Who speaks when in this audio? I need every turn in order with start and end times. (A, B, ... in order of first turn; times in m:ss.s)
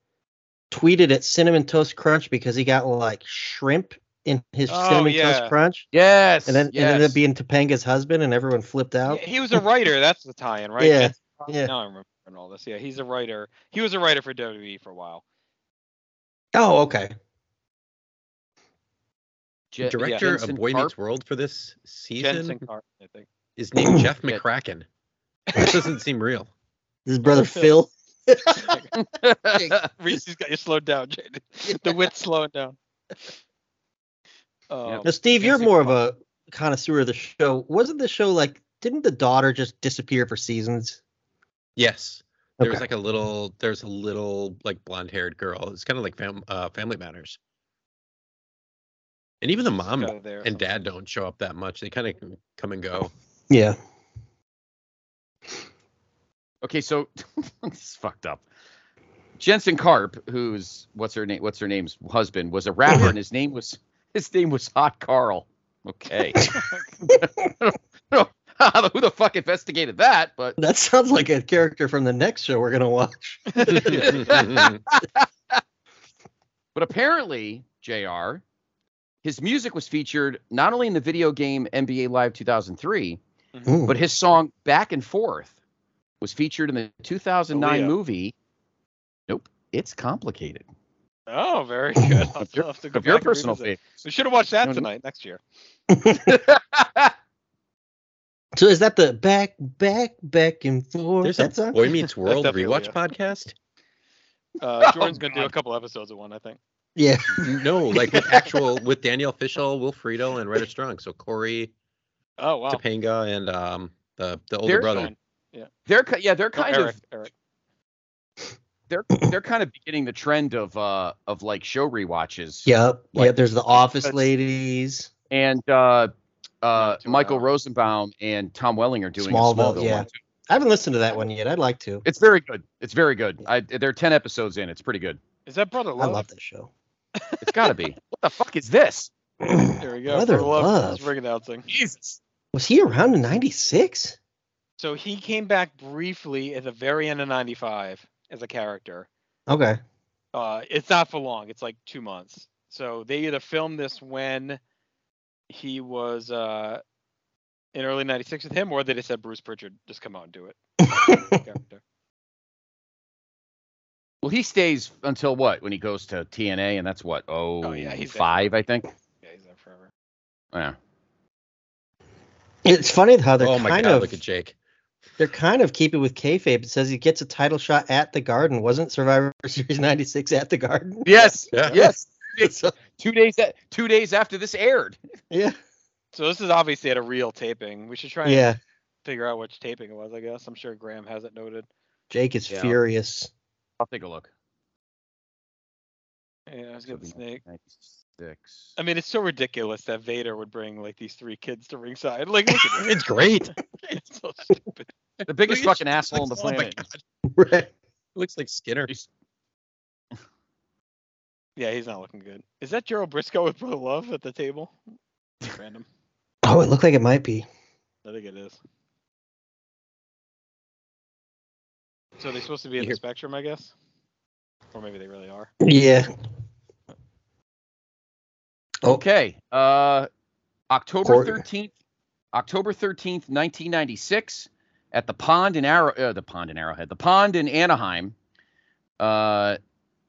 0:00.7-0:05.9 A
0:04.7-0:05.5 B
0:05.9-0:07.2 C
0:06.5-0:09.6 A
0:09.1-0:15.2 B
0:10.8-0:11.7 A
0:16.6-0:17.2 A
0:19.7-0:20.9 C
0:19.8-0:22.6 D
0:22.2-0:23.3 B
0:23.6-0:24.8 D
0:23.8-0:24.1 A
0:25.6-0:26.5 D
0:27.1-0:28.8 A
0:27.3-0:27.8 B
0:28.6-0:28.9 B
0:29.0-0:29.9 C
0:29.9-0:32.8 B
0:31.7-0:31.9 A
0:34.7-0:36.0 B
0:35.0-0:41.0 A
0:41.8-0:47.4 D
0:42.6-0:42.9 A
0:49.4-0:53.1 D
0:49.8-0:50.6 B
0:53.5-0:53.8 A
0:56.6-0:58.4 C
0:59.4-1:06.4 C
1:06.4-1:07.0 B
1:07.2-1:10.6 C
1:10.6-1:14.2 A
1:13.5-1:14.4 B
1:13.7-1:14.8 D
1:14.3-1:15.6 C
1:16.8-1:18.4 C
1:19.2-1:23.2 C
1:23.7-1:24.0 A
1:23.9-1:25.5 C
1:26.2-1:28.3 C
1:27.5-1:28.0 B
1:29.3-1:30.7 C
1:31.3-1:35.4 B
1:32.4-1:34.0 C
1:35.9-1:36.4 A
1:36.2-1:37.1 C
1:38.6-1:41.8 A
1:41.2-1:43.6 D
1:42.2-1:43.0 B
1:44.6-1:46.6 B
1:44.8-1:45.5 C
1:47.0-1:48.5 A
1:47.4-1:51.7 D
1:52.4-1:52.8 B
1:52.7-1:55.1 D
1:54.6-1:55.1 C
1:54.8-1:55.7 B
1:55.9-1:57.0 C
1:56.6-1:57.3 B
1:58.9-2:04.3 C
2:02.7-2:05.1 A
2:05.3-2:06.1 C
2:06.6-2:10.2 C
2:06.8-2:07.5 B
2:09.2-2:12.0 A
2:12.0-2:15.2 C
2:15.5-2:16.2 B
2:16.0-2:16.7 A
2:17.4-2:19.1 C
2:19.4-2:21.1 A
2:19.8-2:21.7 B
2:21.7-2:22.2 C
2:22.5-2:24.2 A
2:24.8-2:29.1 B
2:29.5-2:29.8 A
2:30.3-2:34.6 B
2:35.5-2:36.8 B
2:37.7-2:41.8 B
2:40.9-2:41.4 A
2:44.2-2:48.9 C
2:47.6-2:48.5 B
2:49.2-2:49.9 B
2:52.6-2:54.2 A
2:53.4-2:54.6 D
2:55.2-3:02.8 A
3:01.0-3:05.0 C
3:05.3-3:05.6 A
3:06.1-3:08.5 B
3:08.2-3:08.6 A
3:09.0-3:11.7 B
3:12.1-3:13.3 A
3:12.5-3:12.8 C
3:13.8-3:14.3 C
3:16.5-3:17.4 B
3:16.9-3:18.8 C
3:18.8-3:23.0 B
3:22.8-3:23.5 D
3:23.8-3:24.9 B
3:25.2-3:27.0 D
3:25.2-3:26.8 C
3:27.3-3:27.7 A
3:28.2-3:28.9 D
3:31.6-3:34.8 B
3:35.4-3:35.9 B
3:36.4-3:37.5 A
3:38.0-3:38.6 B
3:42.2-3:43.7 B
3:44.7-3:45.5 B
3:45.6-3:46.1 A
3:48.9-3:50.1 C
3:50.7-3:51.7 C
3:51.0-3:51.4 A
3:52.3-3:58.2 C
3:59.0-3:59.6 C